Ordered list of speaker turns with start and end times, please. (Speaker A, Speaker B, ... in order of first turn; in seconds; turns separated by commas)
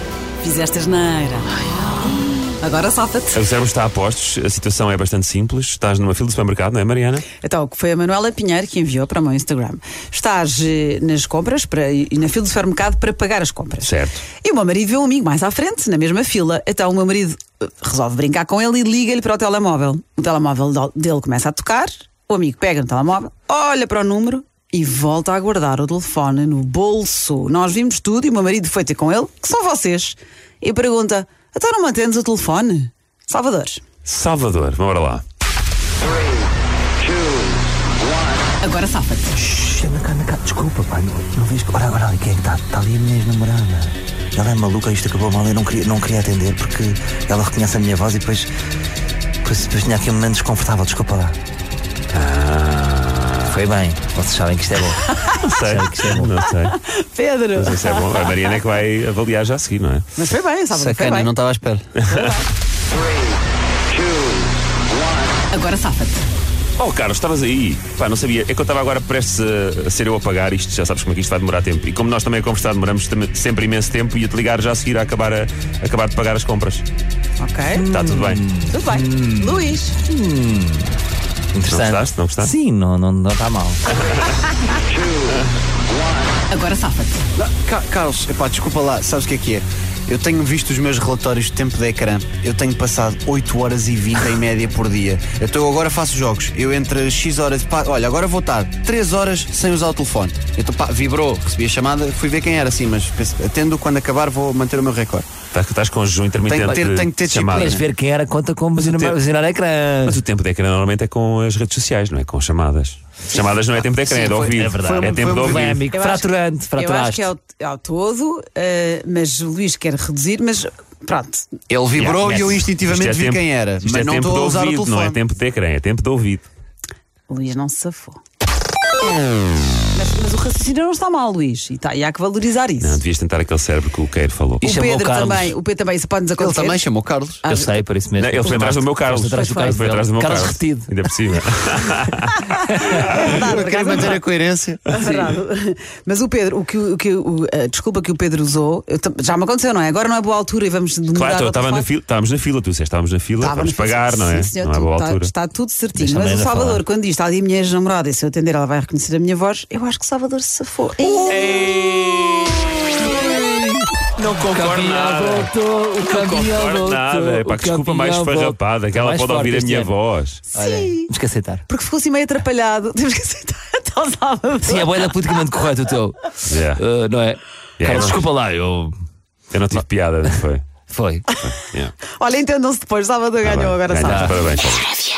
Speaker A: 0.4-3.4, Speaker B: 3.3-7.3, Speaker A: 7.3-33.8, Speaker B: 13.8-14.2, Speaker B: 34.0-35.2, Speaker A: 38.6-39.4, Speaker C: 39.4-48.5, Speaker C: 49.4-51.4, Speaker B: 52.1-53.6, Speaker C: 53.5-56.3, Speaker A: 55.0-55.4, Speaker B: 55.4-56.8, Speaker A: 56.8-58.5, Speaker B: 57.5-60.0, Speaker A: 60.1-61.3, Speaker D: 60.7-61.9, Speaker B: 62.0-62.3, Speaker A: 62.1-62.4, Speaker A: 65.5-66.2, Speaker B: 66.8-76.8, Speaker A: 77.4-77.9, Speaker C: 77.7-81.0, Speaker B: 77.9-78.5, Speaker A: 78.7-80.0, Speaker C: 81.5-83.9, Speaker B: 81.6-82.5, Speaker B: 84.0-84.2, Speaker A: 86.5-87.2, Speaker D: 87.4-105.3, Speaker B: 105.5-107.8, Speaker C: 106.4-106.9, Speaker D: 106.5-107.8, Speaker C: 107.5-110.2, Speaker B: 108.8-109.2, Speaker B: 110.0-115.8, Speaker C: 114.1-117.3, Speaker D: 114.2-115.8, Speaker A: 115.9-121.5, Speaker D: 121.7-125.2, Speaker B: 122.0-126.5, Speaker A: 127.3-128.2, Speaker A: 129.9-133.0, Speaker B: 132.8-134.7, Speaker A: 134.6-136.8, Speaker C: 134.6-135.5, Speaker D: 136.4-137.4, Speaker A: 137.4-137.8, Speaker C: 137.4-141.0, Speaker B: 138.2-142.4, Speaker A: 138.4-139.8, Speaker A: 142.6-144.2, Speaker C: 142.6-143.0, Speaker D: 143.2-144.8, Speaker A: 144.9-151.9, Speaker B: 144.9-145.3, Speaker B: 151.1-155.3, Speaker A: 153.4-161.7, Speaker C: 156.0-156.8, Speaker C: 161.0-169.9, Speaker B: 164.4-170.4, Speaker A: 170.5-171.1, Speaker C: 170.5-171.7, Speaker A: 171.7-175.2, Speaker C: 174.6-179.0, Speaker B: 176.4-176.8, Speaker B: 177.8-178.2, Speaker B: 179.5-180.6, Speaker C: 179.7-180.4, Speaker C: 180.9-181.3, Speaker B: 181.4-181.9, Speaker A: 182.1-184.5, Speaker B: 183.4-184.9, Speaker C: 184.0-184.4